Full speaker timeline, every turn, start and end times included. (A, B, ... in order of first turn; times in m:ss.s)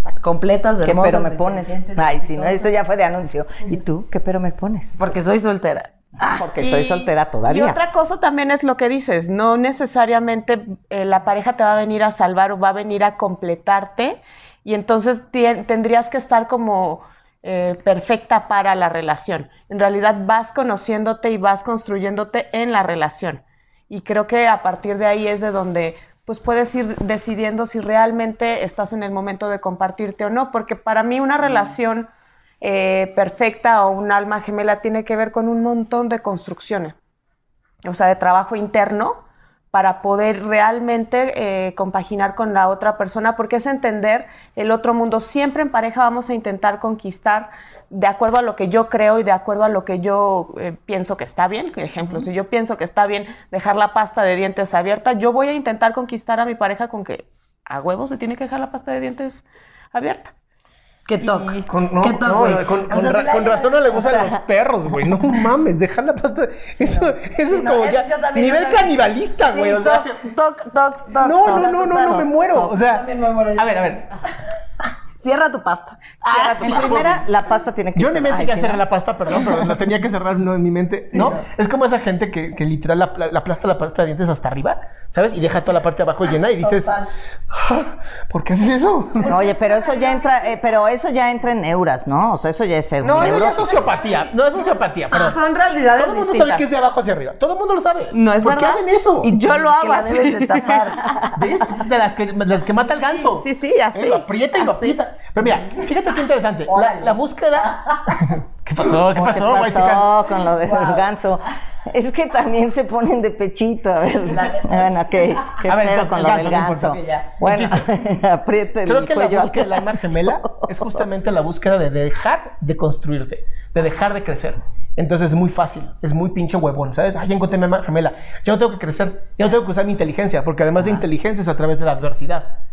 0:00.2-0:02.7 A
0:00.8-0:05.0 B
0:05.0-0:05.9 A
0:06.2-0:07.8 B
0:06.4-0:32.1 C
0:32.6-0:37.0 C
0:37.8-0:39.2 C
0:39.7-1:00.3 C
1:01.1-1:04.0 A
1:01.2-1:01.6 C
1:01.6-1:10.3 D
1:06.8-1:13.7 A
1:11.2-1:14.1 D
1:15.2-1:16.9 A
1:16.2-1:18.8 B
1:16.6-1:17.2 D
1:18.0-1:26.9 D
1:21.1-1:21.4 A
1:26.3-1:27.1 A
1:27.5-1:29.4 D
1:29.2-1:33.9 B
1:29.3-1:30.2 A
1:33.0-1:39.3 D
1:33.2-1:34.2 A
1:35.1-1:36.7 C
1:38.1-1:41.2 C
1:39.5-1:41.1 A
1:41.3-1:50.1 D
1:43.0-1:45.0 C
1:46.7-1:48.3 A
1:49.1-2:01.0 B
1:50.5-1:51.1 A
1:54.3-1:55.0 A
1:55.6-1:57.8 D
1:56.9-1:57.3 A
1:58.8-2:12.5 D